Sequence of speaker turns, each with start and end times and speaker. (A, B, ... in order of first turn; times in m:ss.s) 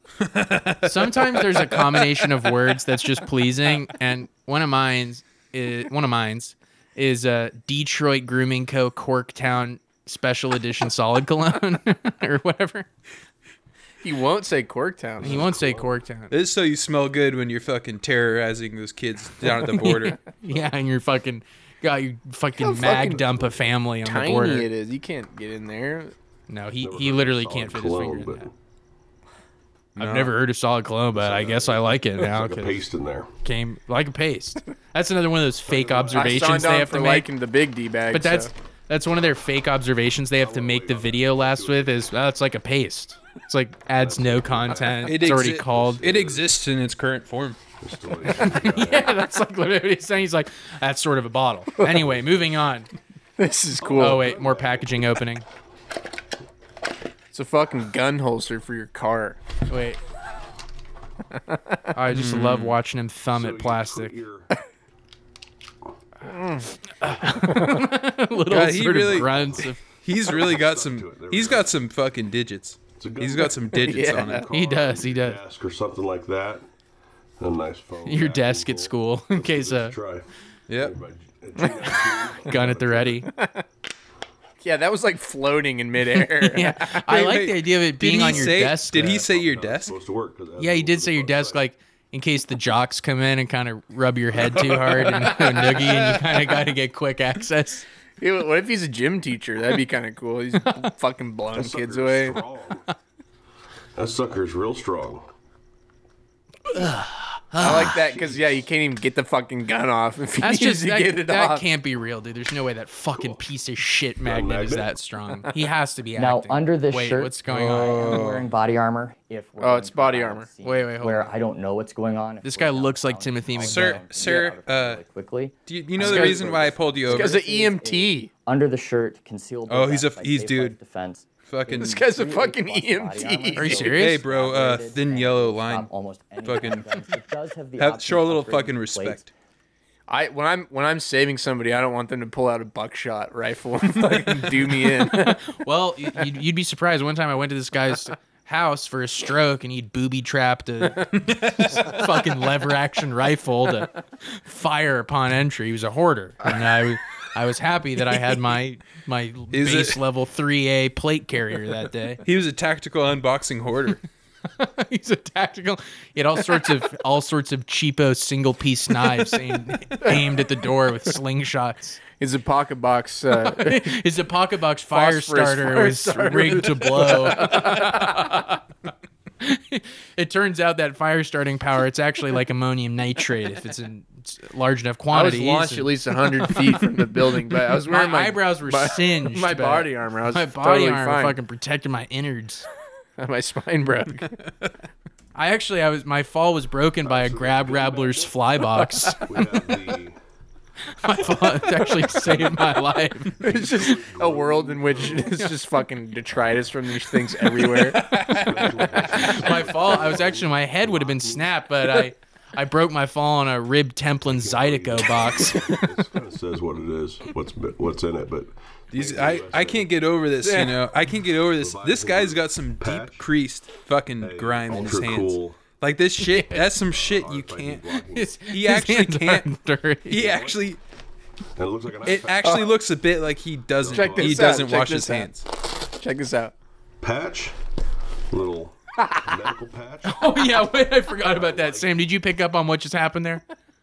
0:00.2-0:01.8 A
0:00.8-0:12.9 B
0:14.0-0:15.5 C
0:15.2-0:15.9 D
0:15.2-0:16.3 B
0:16.3-0:20.2 A
0:19.6-0:24.7 B
0:22.6-0:23.3 C
0:22.9-0:23.7 D
0:24.0-0:26.1 C
0:26.5-0:28.4 B
0:26.8-0:28.5 D
0:30.0-0:30.3 A
0:30.0-0:32.8 B
0:31.1-0:33.3 D
0:33.4-0:37.3 B
0:35.6-0:36.6 D
0:36.1-0:38.5 C
0:38.1-0:46.0 B
0:40.4-0:42.0 D
0:43.9-0:46.5 D
0:45.0-0:47.6 A
0:47.8-0:49.2 D
0:48.3-0:52.9 B
0:52.0-0:52.5 D
0:53.4-0:54.3 C
0:53.8-0:55.2 D
0:54.0-0:55.4 B
0:57.3-0:59.4 C
0:59.7-1:00.0 B
1:01.9-1:04.2 B
1:02.1-1:02.8 A
1:03.3-1:04.5 D
1:06.2-1:06.7 C
1:07.0-1:09.8 B
1:07.0-1:07.6 D
1:08.5-1:14.4 A
1:08.9-1:11.7 D
1:12.9-1:16.6 D
1:13.7-1:14.5 C
1:14.5-1:15.4 B
1:17.4-1:23.2 D
1:18.0-1:20.0 B
1:20.7-1:21.0 A
1:21.6-1:23.3 B
1:23.3-1:23.6 C
1:24.6-1:27.0 C
1:26.4-1:29.2 B
1:27.0-1:29.9 A
1:28.1-1:31.6 D
1:30.6-1:37.8 B
1:38.2-1:42.4 C
1:41.5-1:42.8 D
1:44.0-1:45.2 D
1:46.7-1:48.0 B
1:47.6-1:51.6 C
1:48.0-1:48.6 D
1:50.4-1:58.2 B
1:53.1-1:53.4 D
1:54.2-1:54.9 D
1:56.2-2:19.3 E
1:57.5-1:58.5 A
1:59.6-2:00.5 C
2:00.6-2:01.4 B
2:02.4-2:04.0 B
2:03.6-2:05.0 A
2:05.6-2:07.4 A
2:06.0-2:08.3 C
2:09.7-2:10.8 A
2:11.4-2:12.0 A
2:11.7-2:13.9 C
2:13.6-2:14.2 B
2:13.9-2:16.9 A
2:17.8-2:19.3 A
2:20.1-2:25.4 C
2:24.8-2:42.2 B
2:31.1-2:32.0 A
2:39.5-2:40.0 A
2:42.2-2:44.0 A
2:44.6-2:52.0 B
2:50.0-2:50.4 C
2:52.2-2:54.0 C
2:53.4-2:58.6 B
2:54.9-2:58.3 C
2:59.4-3:06.8 B
3:05.1-3:11.4 C
3:07.8-3:12.6 B
3:13.2-3:14.4 C
3:15.3-3:19.4 B
3:17.0-3:18.5 D
3:19.2-3:20.2 D
3:21.0-3:23.4 B
3:21.2-3:22.5 D
3:23.4-3:25.5 D
3:23.4-3:28.1 C
3:27.7-3:28.6 A
3:28.2-3:31.6 D
3:28.6-3:35.7 B
3:34.2-3:39.9 D
3:38.9-3:49.5 A
3:40.4-3:40.8 C
3:41.5-3:43.2 D
3:44.2-3:45.6 D
3:46.2-3:46.6 B
3:46.5-3:48.4 D
3:47.9-3:50.4 B
3:50.1-3:50.8 A
3:50.1-3:50.7 D
3:51.6-3:52.6 D
3:52.0-3:55.4 A
3:52.4-3:52.7 C
3:53.8-3:54.7 D
3:53.9-3:55.3 C
3:56.0-3:56.5 C
3:57.0-3:57.5 D
3:58.3-4:02.0 D
4:00.0-4:03.4 B